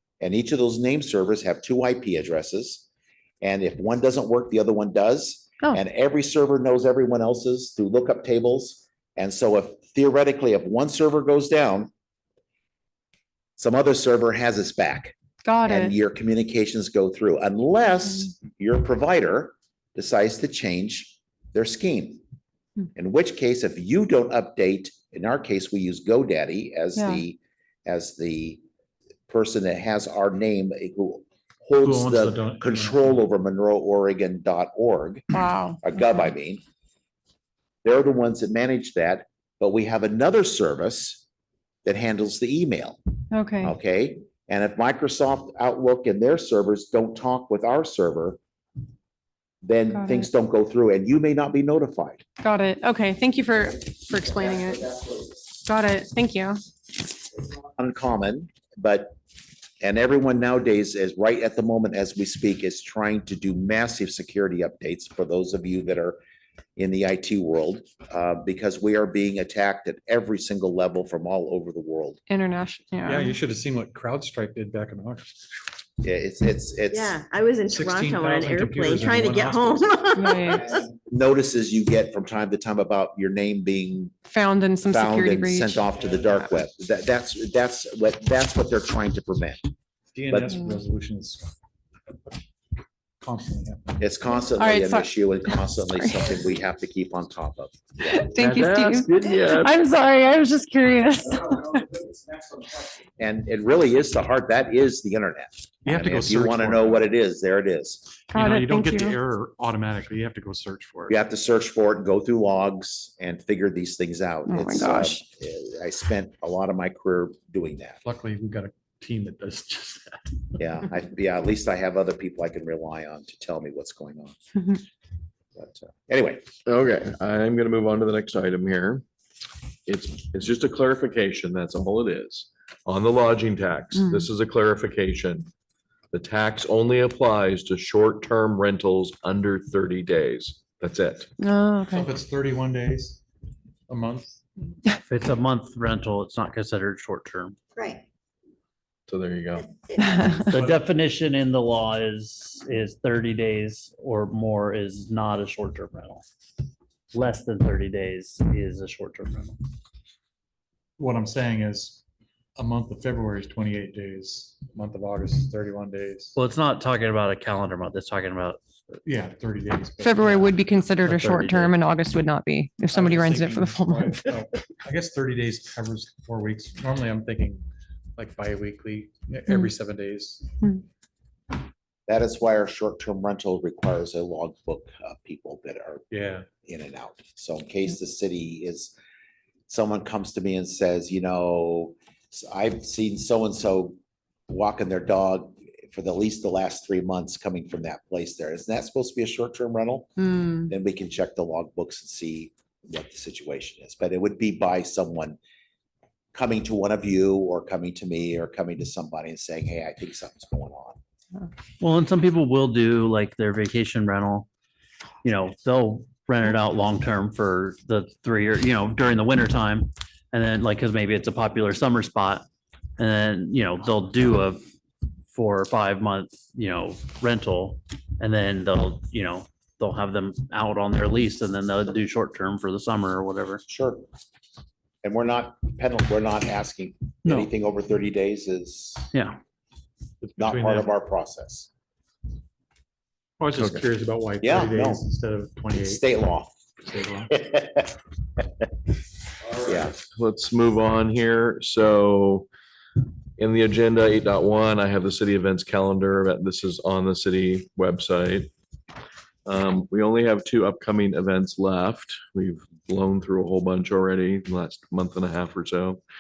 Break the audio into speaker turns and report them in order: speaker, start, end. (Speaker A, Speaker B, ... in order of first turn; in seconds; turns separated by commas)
Speaker A: 0.2-2.8, Speaker A: 3.4-11.9, Speaker A: 13.6-15.1, Speaker B: 15.4-15.9, Speaker A: 15.6-22.2, Speaker A: 22.9-28.6, Speaker B: 26.9-27.2, Speaker A: 29.3-35.2, Speaker C: 31.8-33.2, Speaker B: 35.3-35.8, Speaker A: 35.8-36.6, Speaker A: 37.8-41.2, Speaker A: 41.8-43.0, Speaker B: 43.3-43.7, Speaker A: 43.6-48.4, Speaker A: 49.6-52.2, Speaker B: 49.9-50.3, Speaker B: 52.4-55.0, Speaker B: 55.6-56.6, Speaker A: 57.5-59.1, Speaker A: 59.8-66.2, Speaker A: 66.8-72.2, Speaker B: 72.3-73.3, Speaker C: 73.0-75.4, Speaker A: 76.0-77.2, Speaker D: 76.9-80.8, Speaker C: 77.7-80.0, Speaker B: 80.1-80.7, Speaker A: 80.6-84.2, Speaker B: 84.3-85.9, Speaker A: 84.9-89.6, Speaker C: 90.1-91.5, Speaker A: 90.3-90.6, Speaker C: 93.2-94.2, Speaker A: 94.0-98.3, Speaker B: 94.5-96.2, Speaker B: 98.0-101.9, Speaker E: 98.3-99.8, Speaker A: 103.2-108.2, Speaker C: 105.8-107.1, Speaker B: 108.3-109.2, Speaker C: 108.3-111.2, Speaker A: 111.1-118.0, Speaker B: 114.5-115.2, Speaker C: 118.0-120.4, Speaker A: 120.6-124.8, Speaker A: 125.5-126.5, Speaker E: 126.6-129.0, Speaker E: 129.8-135.5, Speaker B: 133.9-134.3, Speaker E: 136.1-141.3, Speaker B: 141.4-142.1, Speaker C: 141.9-143.2, Speaker C: 143.9-144.4, Speaker F: 145.1-147.6, Speaker D: 147.7-148.0, Speaker E: 149.1-149.7, Speaker D: 149.6-150.4, Speaker B: 150.0-150.5, Speaker F: 150.5-156.2, Speaker C: 150.5-150.8, Speaker F: 157.1-159.6, Speaker C: 161.0-162.0, Speaker C: 162.6-166.3, Speaker F: 166.3-168.6, Speaker C: 169.0-171.1, Speaker B: 170.0-174.2, Speaker F: 171.1-171.7, Speaker C: 172.9-177.6, Speaker C: 178.2-180.5, Speaker A: 182.1-186.0, Speaker C: 186.1-186.5, Speaker A: 186.6-188.9, Speaker A: 189.7-193.9, Speaker A: 194.5-200.1, Speaker B: 200.2-200.7, Speaker A: 200.6-205.4, Speaker A: 206.3-211.0, Speaker F: 211.8-214.5, Speaker F: 215.2-222.4, Speaker F: 223.0-224.6, Speaker F: 225.3-233.6, Speaker A: 233.7-234.0, Speaker A: 235.0-239.1, Speaker F: 239.1-239.4, Speaker C: 240.2-240.9, Speaker A: 240.4-241.7, Speaker C: 243.4-246.1, Speaker E: 243.5-243.8, Speaker A: 244.4-245.0, Speaker A: 245.8-246.5, Speaker C: 246.8-247.3, Speaker A: 247.3-247.9, Speaker E: 249.6-252.5, Speaker A: 249.6-250.0, Speaker E: 253.4-258.5, Speaker E: 259.4-266.0